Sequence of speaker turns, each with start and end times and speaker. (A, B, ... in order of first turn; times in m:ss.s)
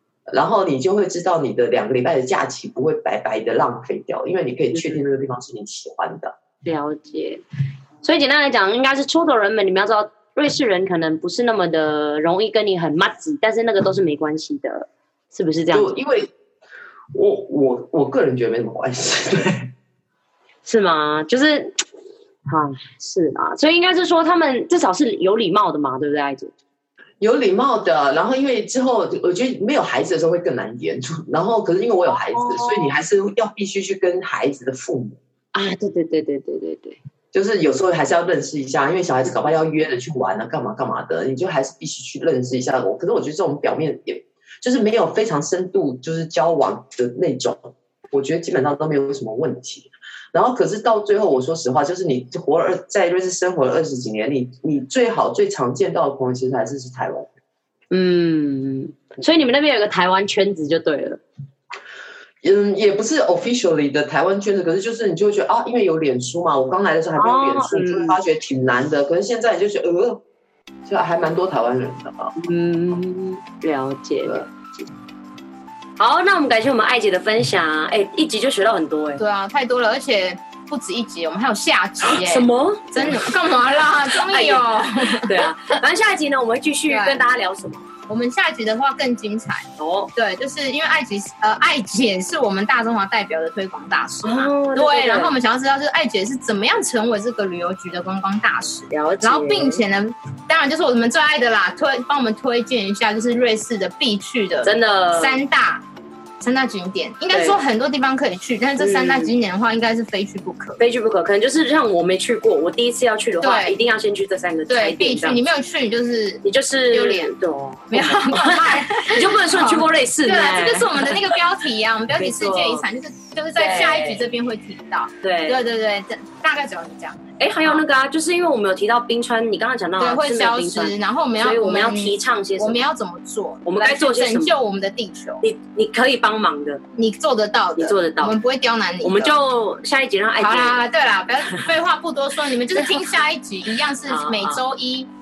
0:00.3-0:06.4 A
0:04.8-0:05.0 B
0:06.6-0:07.4 B
0:08.0-0:15.9 B
0:15.7-0:16.3 A
0:17.1-0:19.7 A
0:20.6-0:21.8 B
0:22.5-0:26.5 B
0:27.2-0:35.2 A
0:32.1-0:33.0 B
0:35.5-0:37.0 B
0:37.3-0:57.3 A
0:57.9-1:01.2 B
1:02.4-1:10.2 A
1:07.2-1:08.2 B
1:10.8-1:12.3 A
1:12.4-1:14.9 B
1:14.2-1:14.5 A
1:16.0-1:19.2 B
1:19.2-1:25.5 C
1:22.0-1:23.3 B
1:24.1-1:27.9 B
1:26.9-1:27.2 C
1:28.1-1:45.8 C
1:29.8-1:30.1 B
1:34.2-1:35.4 B
1:38.9-1:39.8 B
1:44.6-1:45.4 B
1:46.4-1:50.8 C
1:47.3-1:47.6 B
1:48.8-1:49.3 B
1:50.8-1:55.4 B
1:53.4-1:53.8 C
1:54.7-1:57.3 C
1:56.4-2:01.4 B
1:57.9-2:07.8 C
2:02.2-2:02.8 B
2:03.6-2:04.3 B
2:05.2-2:05.6 B
2:07.4-2:12.8 B
2:10.0-2:15.4 C
2:13.7-2:14.6 B
2:15.4-2:16.8 B
2:17.0-2:19.4 C
2:17.8-2:18.4 B
2:19.0-2:20.8 B
2:20.4-2:25.1 C
2:22.7-2:23.2 B
2:24.1-2:24.6 B